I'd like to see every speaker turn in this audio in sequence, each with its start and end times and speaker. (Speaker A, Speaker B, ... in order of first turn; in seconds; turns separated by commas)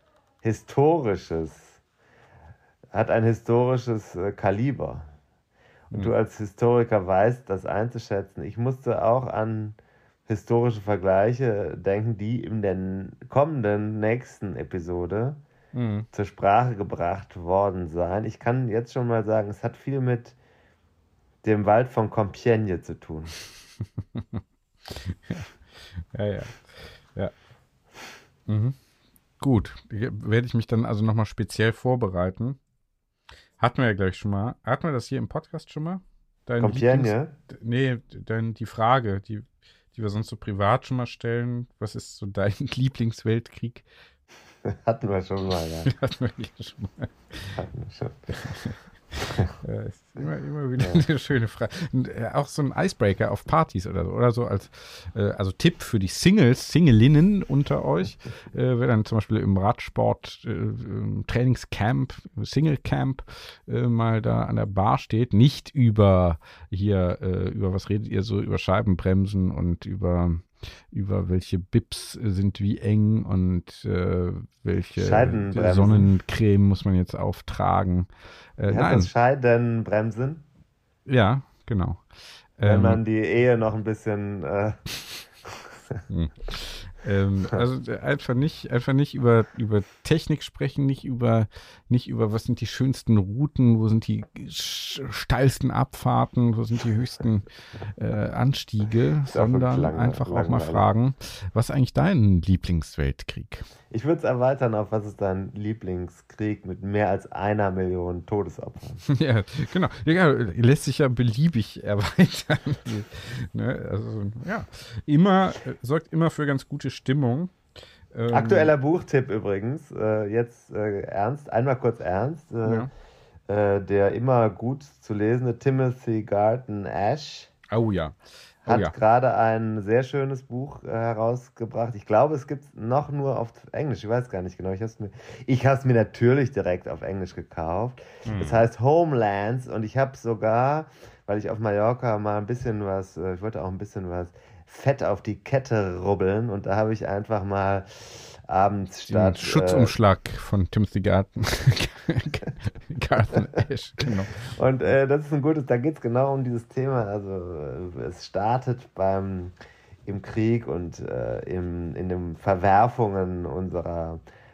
Speaker A: 0.4-1.8, Speaker A: 2.9-5.1, Speaker A: 5.9-15.4, Speaker B: 15.7-16.1, Speaker A: 16.1-20.4, Speaker A: 21.4-23.3, Speaker B: 24.1-27.3, Speaker B: 28.5-28.8, Speaker B: 29.4-32.6, Speaker B: 33.6-43.9, Speaker A: 36.6-37.3, Speaker A: 44.7-45.9, Speaker B: 45.9-47.6, Speaker A: 47.5-48.4, Speaker B: 48.4-79.1, Speaker A: 75.0-76.1, Speaker A: 78.7-80.4, Speaker B: 81.0-82.0, Speaker B: 82.6-83.0, Speaker A: 82.6-84.8, Speaker B: 86.1-103.7, Speaker A: 99.3-100.8, Speaker A: 103.9-109.0, Speaker B: 109.1-117.5, Speaker B: 118.1-118.7, Speaker A: 118.3-122.9, Speaker B: 122.6-122.9, Speaker A: 123.5-127.5, Speaker B: 127.7-128.9, Speaker A: 128.7-149.9, Speaker B: 138.2-138.6, Speaker B: 149.1-154.4, Speaker A: 154.4-159.5, Speaker A: 160.1-164.2